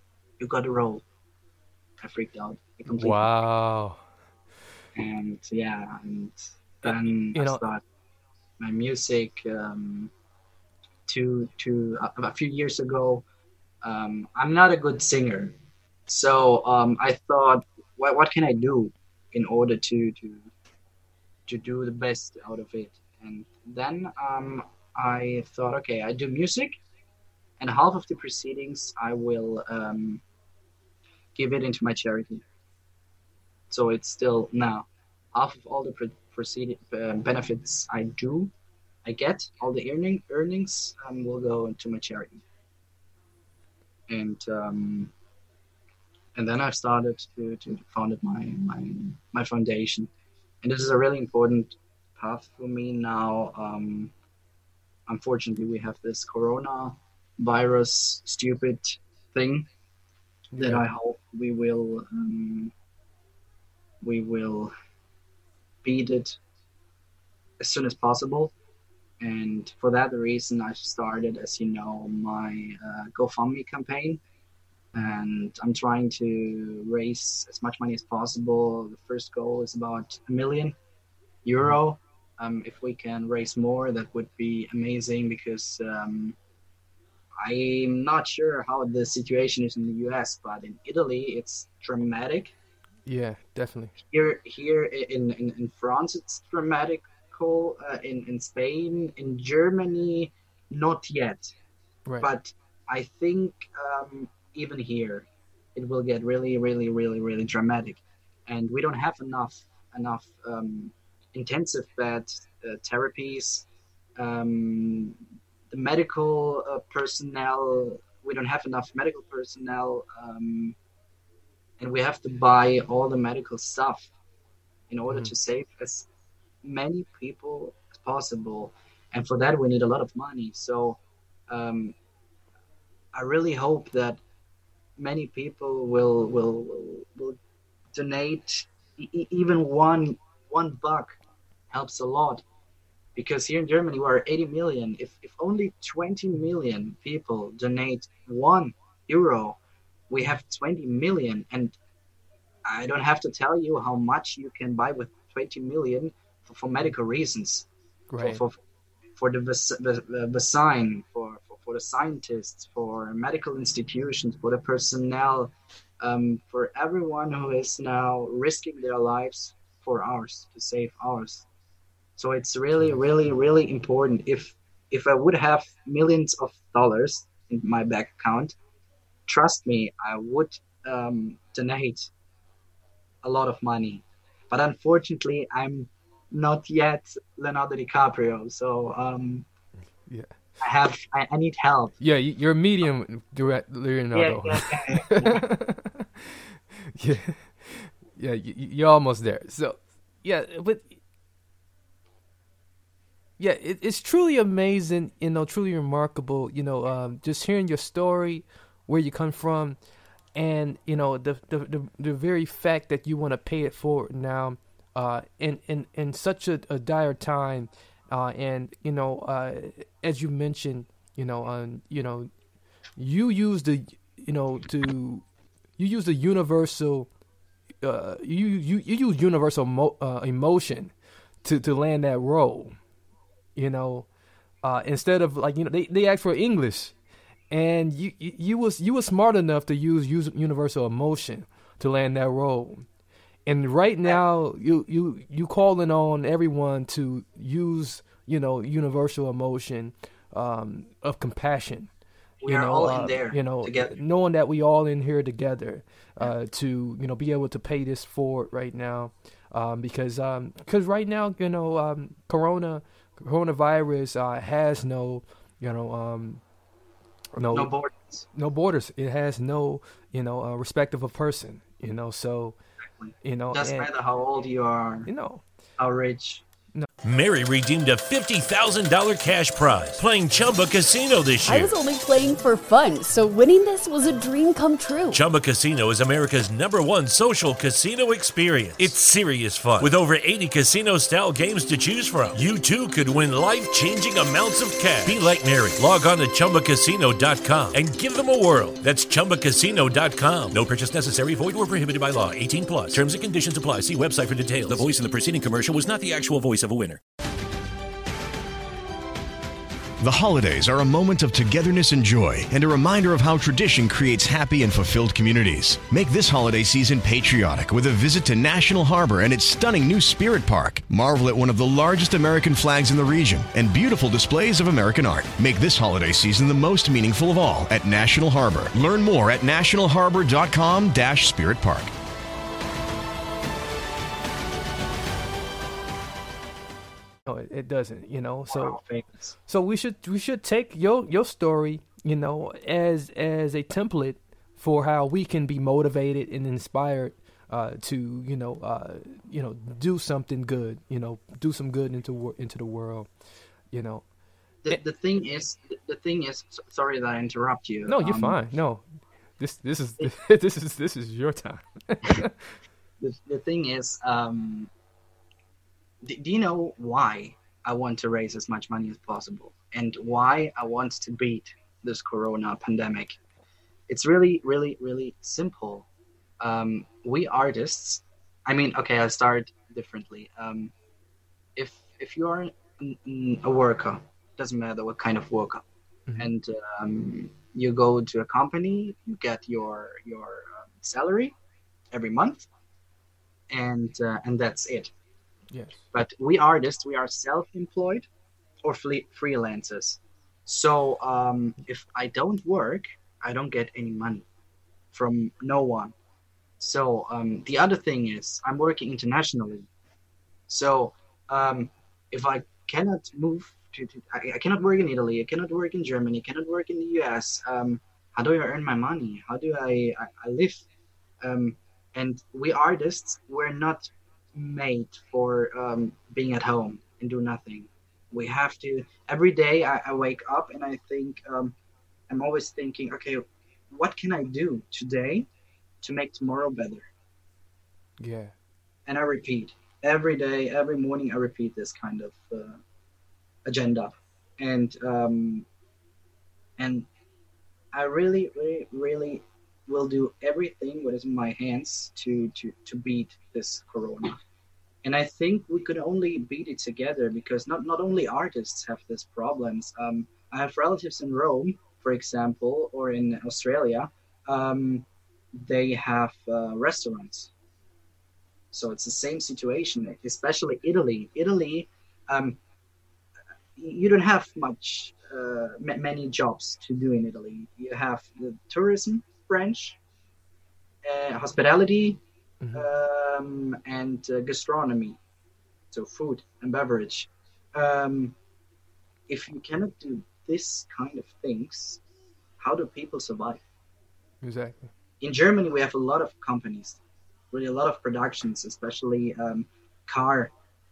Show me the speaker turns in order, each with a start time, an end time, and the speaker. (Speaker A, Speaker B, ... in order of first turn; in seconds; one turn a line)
Speaker A: 0.4-1.0
Speaker A: 2.0-3.3
Speaker B: 2.9-4.0
Speaker A: 5.0-7.8
Speaker B: 6.8-7.6
Speaker A: 8.6-10.1
Speaker A: 11.1-13.2
Speaker A: 13.8-15.5
Speaker A: 16.1-20.5
Speaker A: 21.5-26.8
Speaker A: 27.6-30.2
Speaker A: 31.4-32.4
Speaker A: 33.7-38.5
Speaker A: 39.0-42.4
Speaker A: 44.1-45.1
Speaker A: 46.4-50.1
Speaker A: 50.6-54.1
Speaker A: 55.1-59.7
Speaker B: 60.5-60.8
Speaker A: 60.6-62.7
Speaker A: 64.0-64.7
Speaker A: 65.8-66.3
Speaker A: 67.6-68.5
Speaker A: 69.2-74.2
Speaker A: 74.9-80.8
Speaker A: 81.4-86.3
Speaker A: 87.4-92.5
Speaker B: 93.0-93.9
Speaker A: 94.1-101.5
Speaker A: 102.2-115.2
Speaker A: 115.7-120.7
Speaker A: 121.8-124.1
Speaker A: 124.9-126.1
Speaker A: 126.6-131.0
Speaker A: 131.5-131.9
Speaker A: 133.1-134.2
Speaker A: 135.0-137.4
Speaker A: 137.9-141.1
Speaker A: 141.7-142.4
Speaker A: 143.2-149.6
Speaker A: 150.1-151.7
Speaker A: 152.6-157.7
Speaker B: 158.1-158.4
Speaker A: 158.2-158.6
Speaker A: 159.2-171.4
Speaker A: 172.2-178.5
Speaker A: 179.3-182.1
Speaker A: 183.2-189.4
Speaker B: 190.1-190.3
Speaker A: 190.6-191.9
Speaker B: 192.0-200.9
Speaker A: 194.1-195.4
Speaker B: 203.4-209.8
Speaker B: 210.3-222.3
Speaker B: 223.0-225.2
Speaker B: 225.8-227.1
Speaker B: 227.8-230.9
Speaker B: 231.4-232.8
Speaker B: 233.6-234.1
Speaker B: 234.6-236.9
Speaker B: 237.5-242.8
Speaker B: 243.5-251.9
Speaker A: 252.4-253.9
Speaker B: 252.5-266.4
Speaker B: 267.4-267.7
Speaker A: 267.5-268.2
Speaker B: 268.3-272.6
Speaker A: 272.8-275.1
Speaker B: 273.2-273.9
Speaker B: 275.1-275.4
Speaker A: 275.8-276.4
Speaker C: 277.0-281.7
Speaker D: 281.4-285.2
Speaker C: 285.1-307.0
Speaker E: 310.0-331.9
Speaker B: 337.2-338.8
Speaker A: 338.5-339.3
Speaker B: 339.5-353.1
Speaker B: 353.7-354.0
Speaker A: 354.6-358.4
Speaker B: 357.9-358.8
Speaker B: 359.4-362.5
Speaker A: 363.0-364.7
Speaker A: 366.0-373.2
Speaker A: 373.9-375.9
Speaker A: 376.4-380.7
Speaker A: 381.6-385.6
Speaker A: 386.2-391.3
Speaker A: 391.9-392.5
Speaker A: 393.5-394.9
Speaker B: 395.5-395.8
Speaker A: 395.9-398.1
Speaker A: 398.6-404.2
Speaker A: 404.9-405.9
Speaker A: 406.6-409.6
Speaker A: 410.5-420.6
Speaker A: 421.2-431.5
Speaker A: 432.1-435.3
Speaker A: 435.8-436.9
Speaker B: 438.0-438.3
Speaker A: 438.9-442.6
Speaker A: 443.4-445.4
Speaker A: 446.6-446.9
Speaker A: 447.7-454.2
Speaker A: 454.8-464.9
Speaker A: 465.4-467.3
Speaker A: 468.5-472.4
Speaker A: 473.6-479.8
Speaker A: 480.8-482.0
Speaker B: 482.4-482.7
Speaker A: 482.5-485.0
Speaker A: 485.7-488.1
Speaker A: 489.1-491.8
Speaker A: 492.4-493.4
Speaker B: 494.2-494.7
Speaker A: 495.0-496.8
Speaker A: 497.3-500.3